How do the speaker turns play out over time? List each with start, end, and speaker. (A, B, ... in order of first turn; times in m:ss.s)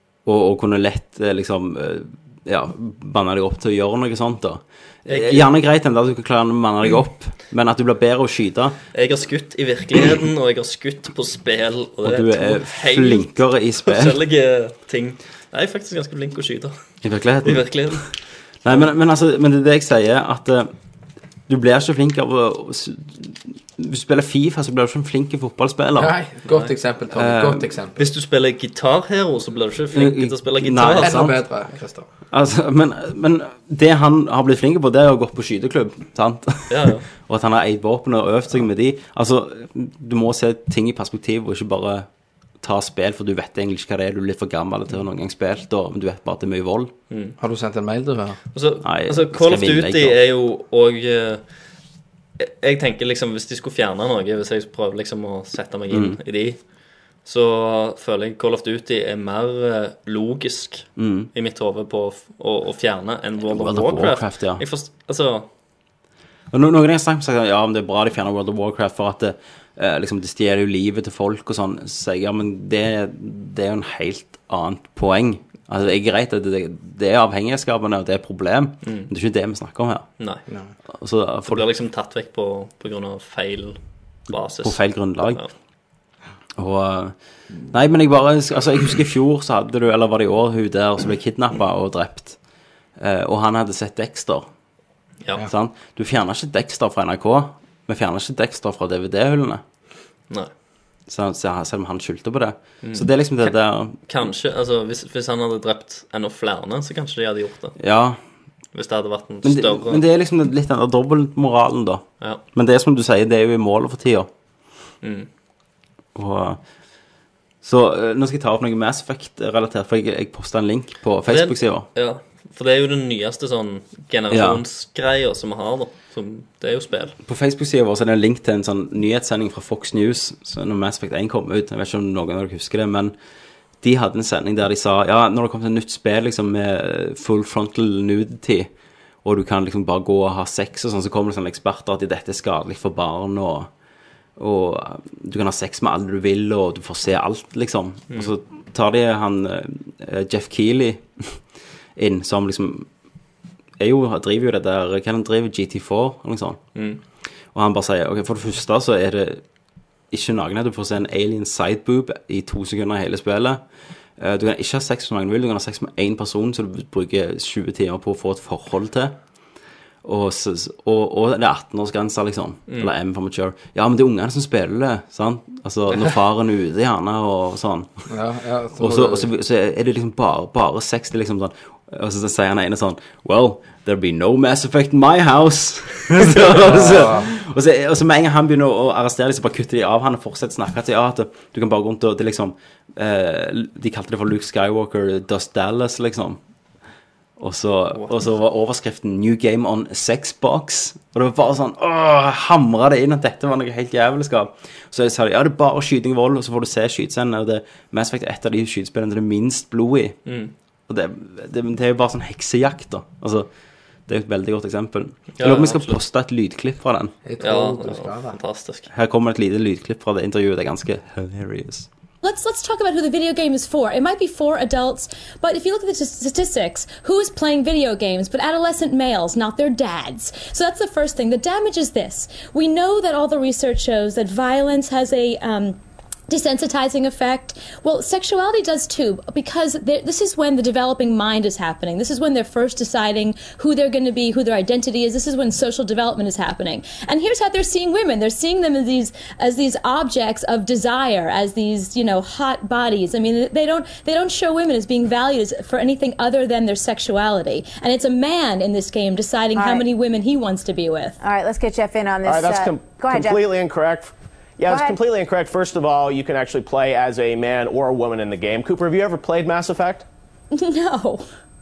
0:00.2-0:08.8 A
0:05.1-0:05.5 B
0:08.9-0:16.7 B
0:12.0-0:14.2 A
0:17.0-0:18.1 A
0:17.4-0:18.1 B
0:18.6-0:20.7 A
0:21.5-0:26.1 A
0:26.0-0:28.1 C
0:26.4-0:26.7 B
0:27.1-0:27.7 A
0:28.0-0:31.2 B
0:29.9-0:31.4 A
0:30.9-0:32.1 C
0:32.3-0:42.0 A
0:36.7-0:37.0 B
0:42.6-0:46.9 A
0:47.1-0:47.4 B
0:47.4-0:48.4 C
0:48.5-0:51.4 B
0:48.8-0:50.2 A
0:52.4-0:56.6 B
0:55.9-0:56.2 A
0:57.2-1:05.5 B
1:01.0-1:01.3 A
1:03.5-1:04.6 A
1:06.5-1:20.1 A
1:18.8-1:19.1 B
1:21.0-1:21.6 A
1:21.5-1:23.8 B
1:24.3-1:25.5 B
1:24.6-1:25.4 A
1:26.6-1:27.1 A
1:27.7-1:32.4 A
1:33.0-1:34.5 A
1:35.4-1:39.6 A
1:41.1-1:44.0 A
1:42.8-1:47.8 B
1:47.8-1:48.2 A
1:48.7-1:50.0 B
1:49.4-1:54.3 A
1:55.0-1:55.3 B
1:56.1-1:56.6 A
1:57.6-2:01.9 A
2:01.2-2:07.1 B
2:04.3-2:04.6 A
2:07.2-2:13.1 A
2:13.8-2:18.7 A
2:19.2-2:23.7 A
2:24.4-2:31.4 A
2:32.0-2:32.9 A
2:33.8-2:36.6 A
2:36.7-2:37.0 B
2:37.5-2:39.4 A
2:40.1-2:43.6 A
2:44.2-2:49.1 A
2:50.0-2:58.1 A
2:58.1-2:59.3 C
2:58.8-3:16.4 A
3:06.2-3:07.3 C
3:17.4-3:30.2 A
3:30.2-3:30.5 B
3:30.9-3:33.5 A
3:34.1-3:37.1 A
3:35.4-3:36.0 B
3:37.2-3:38.4 C
3:37.4-3:38.9 B
3:38.9-3:41.9 A
3:42.2-3:55.8 D
3:56.3-4:21.2 D
4:19.5-4:19.8 E
4:21.2-4:23.4 E
4:22.2-4:30.0 F
4:24.7-4:25.0 E
4:30.5-4:31.3 D